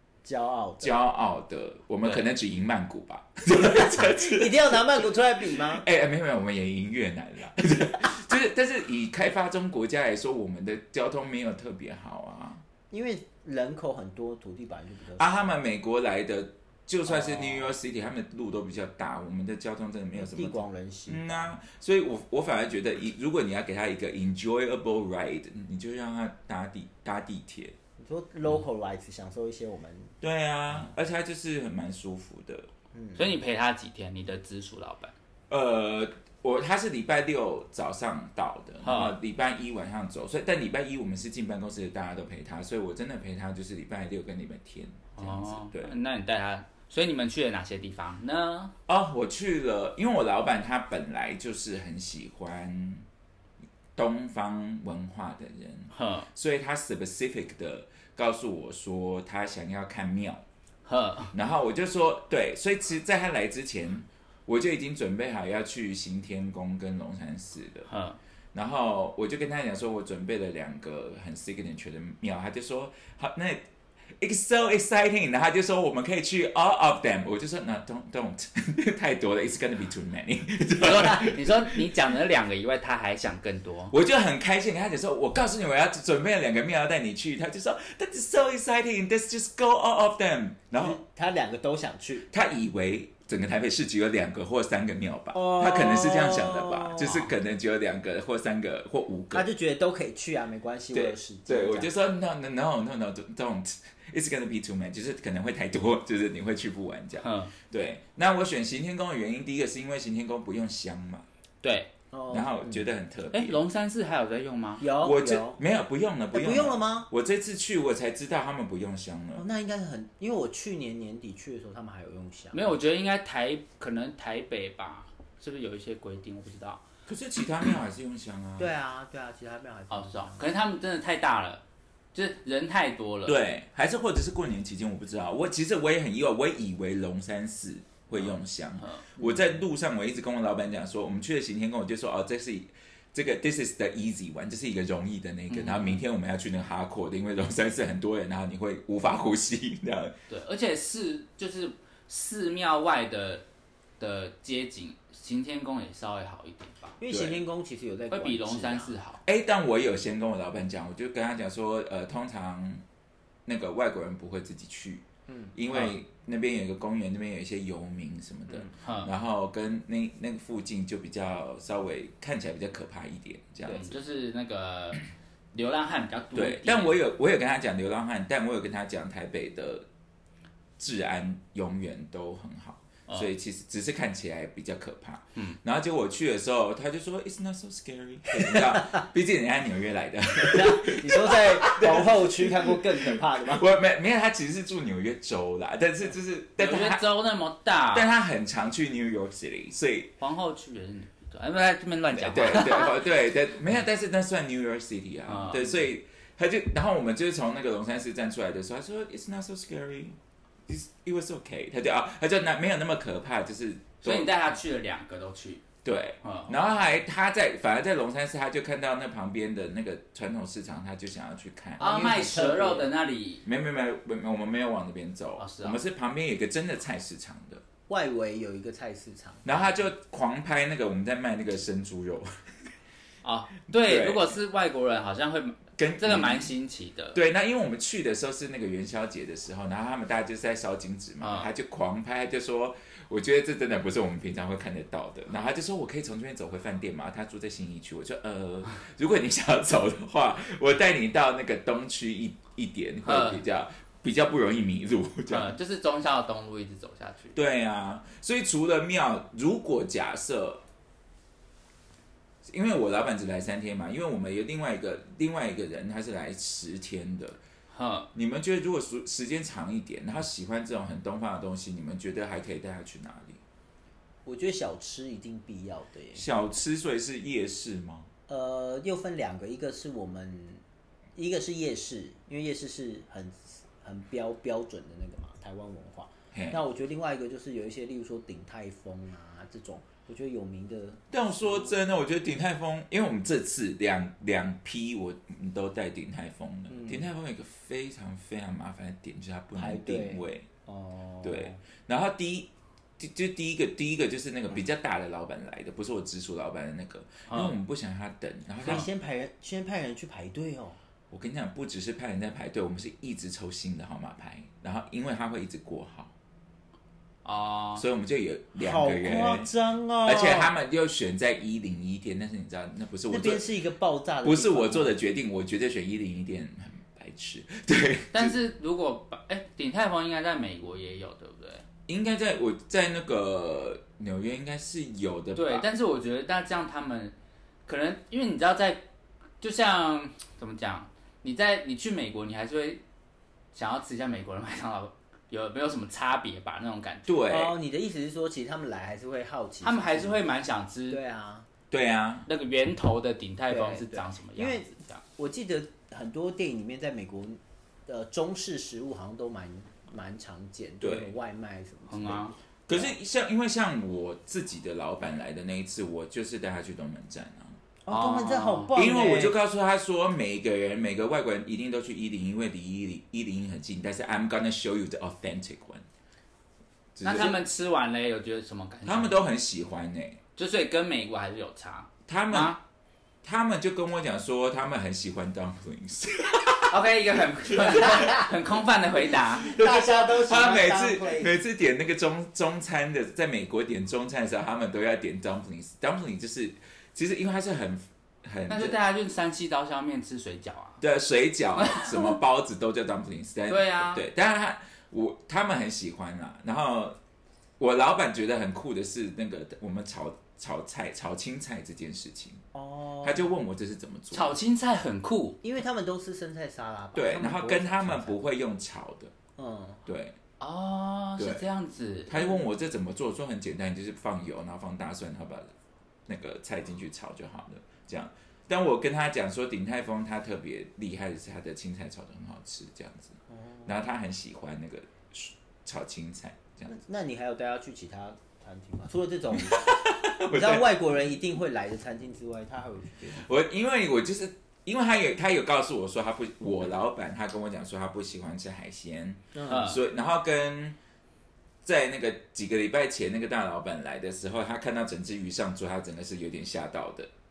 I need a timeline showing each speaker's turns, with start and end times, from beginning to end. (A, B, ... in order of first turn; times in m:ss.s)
0:00.2-0:00.9 A
0:00.8-0:12.6 B
0:03.5-0:05.8 A
0:12.9-0:15.4 A
0:15.2-0:27.8 B
0:17.1-0:17.7 A
0:20.2-0:21.5 A
0:28.0-0:30.1 A
0:30.2-0:32.7 B
0:33.1-0:35.1 C
0:35.5-0:45.9 B
0:38.8-0:39.1 C
0:45.1-0:48.7 C
0:48.9-0:53.1 B
0:54.0-1:00.4 B
0:55.9-0:56.3 C
1:00.8-1:01.3 C
1:01.3-1:07.9 B
1:07.9-1:08.2 C
1:08.5-1:13.6 B
1:14.2-1:21.9 B
1:20.8-1:23.9 C
1:23.9-1:31.0 B
1:30.7-1:32.3 A
1:32.3-1:39.4 B
1:35.3-1:37.2 A
1:39.3-1:41.9 A
1:40.9-1:51.2 B
1:47.2-1:47.5 C
1:51.6-1:51.9 C
1:52.1-1:52.8 A
1:52.3-1:53.6 B
1:53.3-1:54.8 C
1:54.8-1:55.6 A
1:55.0-1:59.4 B
1:56.3-1:57.1 A
1:59.4-2:02.7 A
2:02.5-2:06.8 C
2:07.1-2:08.7 B
2:08.6-2:10.5 A
2:09.9-2:11.6 C
2:12.1-2:13.4 C
2:13.2-2:30.1 B
2:18.2-2:19.1 C
2:19.2-2:19.4 A
2:25.5-2:26.0 C
2:30.3-2:33.4 C
2:34.0-2:37.0 C
2:37.0-2:38.9 A
2:37.1-2:37.4 B
2:38.1-2:39.2 C
2:39.2-2:42.8 B
2:43.4-2:54.0 B
2:45.3-2:45.5 A
2:48.7-2:49.1 C
2:53.6-2:57.0 C
2:56.3-2:59.8 B
3:00.8-3:17.1 B
3:08.3-3:09.0 A
3:10.3-3:13.7 A
3:16.6-3:18.1 C
3:17.9-3:20.1 B
3:20.2-3:23.0 C
3:22.1-3:34.3 B
3:25.2-3:25.7 C
3:34.0-3:35.6 C
3:35.8-3:41.9 B
3:36.2-3:36.6 C
3:41.8-3:42.9 A
3:41.8-3:43.4 C
3:43.4-3:47.6 B
3:45.4-3:45.8 C
3:47.9-3:49.5 A
3:49.4-3:52.3 B
3:53.2-3:57.2 C
3:53.7-3:54.3 B
3:55.8-3:56.5 B
3:57.1-4:15.5 B
4:01.2-4:01.5 C
4:13.0-4:13.4 C
4:15.3-4:17.4 C
4:17.3-4:20.6 B
4:22.4-4:27.4 B
4:27.7-4:28.1 C
4:28.1-4:33.4 B
4:34.2-4:36.3 A
4:36.1-4:38.1 B
4:38.3-4:40.6 A
4:41.2-4:51.7 A
4:46.3-4:46.6 B
4:51.1-5:00.5 B
4:56.7-4:57.1 A
4:59.6-5:01.6 A
5:01.2-5:08.9 B
5:07.3-5:07.5 C
5:08.6-5:10.8 A
5:11.1-5:16.1 B
5:17.2-5:17.8 C
5:17.8-5:19.5 B
5:18.6-5:20.5 A
5:20.0-5:23.4 B
5:23.1-5:25.0 A
5:24.2-5:28.4 B
5:28.1-5:31.6 C
5:31.9-5:35.6 B
5:35.3-5:37.1 C
5:37.6-5:38.8 C
5:39.4-5:42.8 C
5:43.5-5:47.2 C
5:47.1-5:47.6 B
5:47.3-5:50.2 A
5:49.6-5:51.0 C
5:50.9-5:51.5 A
5:51.7-5:52.3 B
5:52.3-5:55.0 C
5:53.5-6:02.9 A
6:00.8-6:01.1 B
6:01.9-6:02.3 C
6:02.7-6:07.6 B
6:07.8-6:09.4 A
6:07.9-6:08.7 C
6:08.7-6:15.8 B
6:16.9-6:17.4 B
6:17.0-6:19.2 C
6:18.8-6:20.2 B
6:20.4-6:22.6 C
6:22.1-6:22.6 B
6:23.2-6:26.8 B
6:26.7-6:29.5 C
6:27.5-6:28.2 B
6:27.9-6:28.2 A
6:29.3-6:38.8 B
6:29.4-6:31.4 A
6:38.5-6:40.8 C
6:40.8-6:47.0 B
6:41.6-6:42.1 C
6:43.5-6:44.0 C
6:47.6-6:52.4 B
6:52.5-6:53.3 A
6:53.0-6:54.4 B
6:54.1-6:55.4 C
6:55.4-6:58.2 A
6:56.9-6:59.1 B
6:59.4-6:59.8 A
6:59.8-7:00.2 B
7:00.4-7:02.1 C
7:02.1-7:05.5 B
7:06.1-7:16.7 B
7:13.3-7:13.7 A
7:16.7-7:23.3 A
7:19.3-7:20.7 B
7:23.1-7:30.8 B
7:29.3-7:29.8 A
7:29.4-7:29.8 C
7:31.6-7:37.1 B